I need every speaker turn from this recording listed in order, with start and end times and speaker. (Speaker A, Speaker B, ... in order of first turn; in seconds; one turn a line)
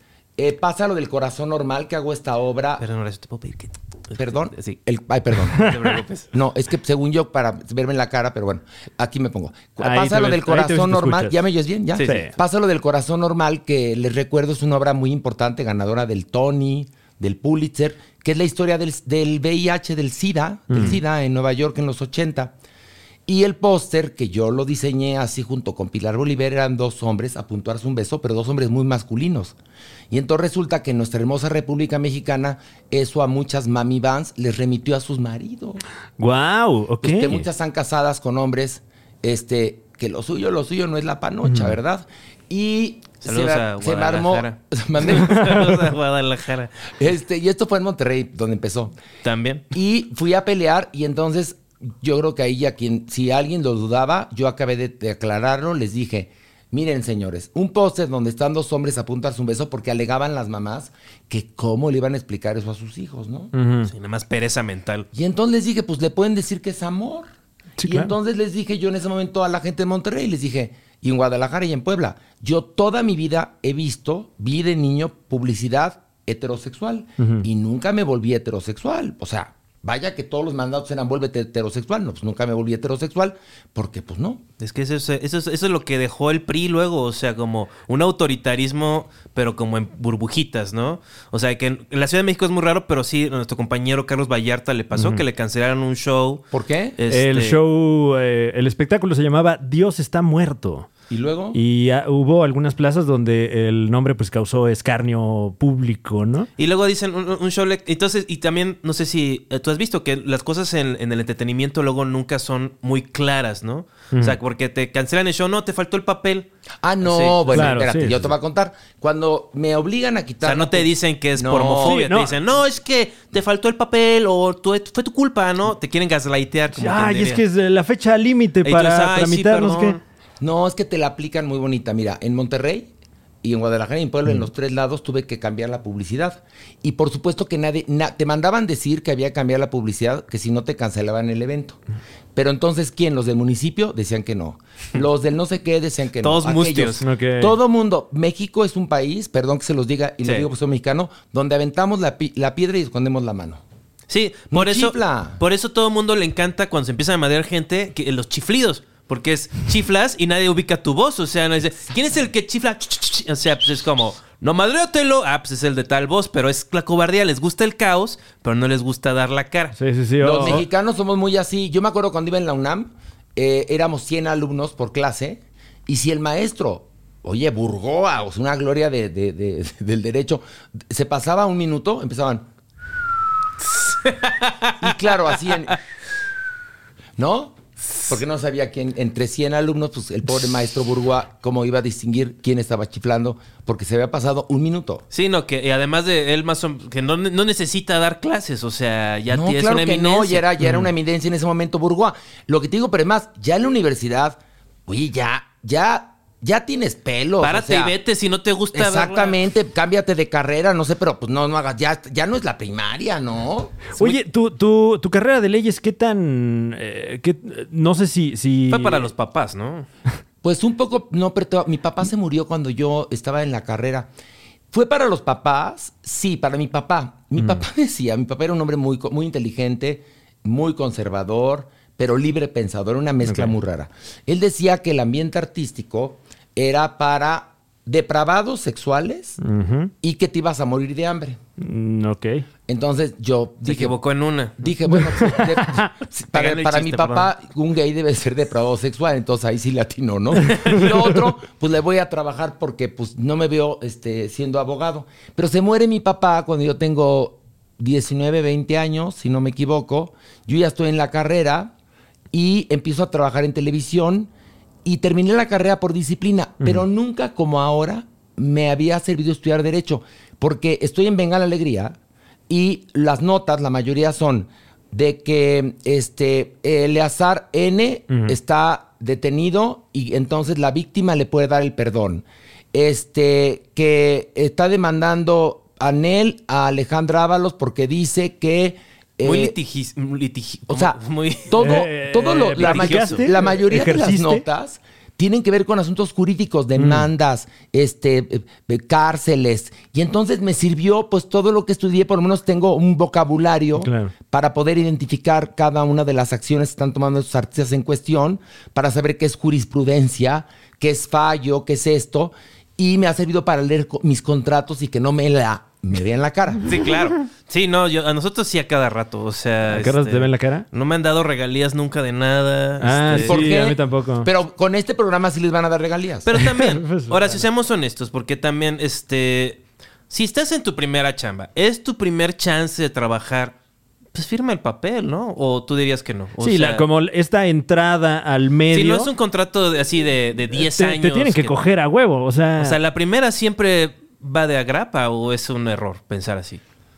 Speaker A: 0.4-2.8
Speaker B: 2.8-4.8
Speaker A: 4.2-22.5
Speaker B: 5.5-6.3
Speaker C: 5.6-5.8
Speaker C: 9.8-11.4
Speaker B: 11.9-12.2
Speaker C: 12.0-12.3
Speaker C: 20.7-21.0
Speaker A: 23.3-29.6
Speaker A: 30.1-35.8
Speaker C: 36.2-37.5
Speaker A: 37.0-45.7
Speaker C: 41.5-41.7
Speaker B: 43.2-46.9
Speaker A: 47.0-49.0
Speaker B: 49.2-49.6
Speaker A: 49.7-63.5
Speaker C: 63.5-63.9
Speaker B: 63.9-65.1
Speaker A: 65.1-67.3
Speaker C: 67.8-68.1
Speaker A: 67.8-84.4
Speaker C: 77.2-77.5
Speaker B: 84.6-97.6
Speaker C: 95.0-95.2
Speaker A: 96.5-97.0
Speaker C: 97.1-100.9
Speaker A: 101.1-101.6
Speaker C: 101.5-106.5
Speaker B: 106.6-116.5
Speaker C: 114.1-114.4
Speaker A: 116.8-122.0
Speaker B: 117.0-117.8
Speaker C: 117.5-118.2
Speaker B: 120.4-127.4
Speaker C: 121.8-122.4
Speaker C: 126.7-130.0
Speaker B: 128.6-130.0
Speaker A: 130.4-132.9
Speaker A: 133.4-141.8
Speaker A: 142.3-153.6
Speaker B: 146.2-147.0
Speaker C: 147.0-147.6
Speaker B: 150.2-150.5
Speaker B: 154.1-169.8
Speaker A: 154.5-155.4
Speaker C: 169.8-170.6
Speaker A: 170.2-182.5
Speaker B: 183.8-184.7
Speaker A: 184.8-185.8
Speaker A: 187.2-195.0
Speaker B: 195.1-200.4
Speaker A: 199.3-207.9
Speaker C: 200.6-200.9
Speaker B: 207.4-209.4
Speaker A: 208.7-213.9
Speaker C: 213.9-219.1
Speaker B: 218.7-219.9
Speaker A: 220.4-224.1
Speaker A: 224.7-239.4
Speaker C: 227.4-227.6
Speaker C: 233.2-233.5
Speaker C: 239.4-239.9
Speaker A: 240.0-241.4
Speaker C: 241.6-242.4
Speaker A: 242.7-244.0
Speaker B: 243.7-244.7
Speaker A: 244.6-261.7
Speaker C: 244.9-245.9
Speaker B: 246.3-247.3
Speaker A: 262.3-264.3
Speaker A: 264.8-272.0
Speaker A: 272.5-289.6
Speaker C: 278.1-278.4
Speaker B: 289.2-291.7
Speaker A: 290.7-316.8
Speaker C: 291.6-294.4
Speaker B: 292.6-293.4
Speaker C: 296.8-297.1
Speaker C: 303.8-304.1
Speaker B: 316.6-323.5
Speaker C: 319.7-320.6
Speaker C: 322.8-324.3
Speaker A: 323.1-326.3
Speaker B: 326.2-333.6
Speaker C: 326.4-327.4
Speaker B: 334.1-336.9
Speaker C: 336.4-339.1
Speaker B: 338.7-341.6
Speaker C: 340.5-342.8
Speaker B: 342.6-346.6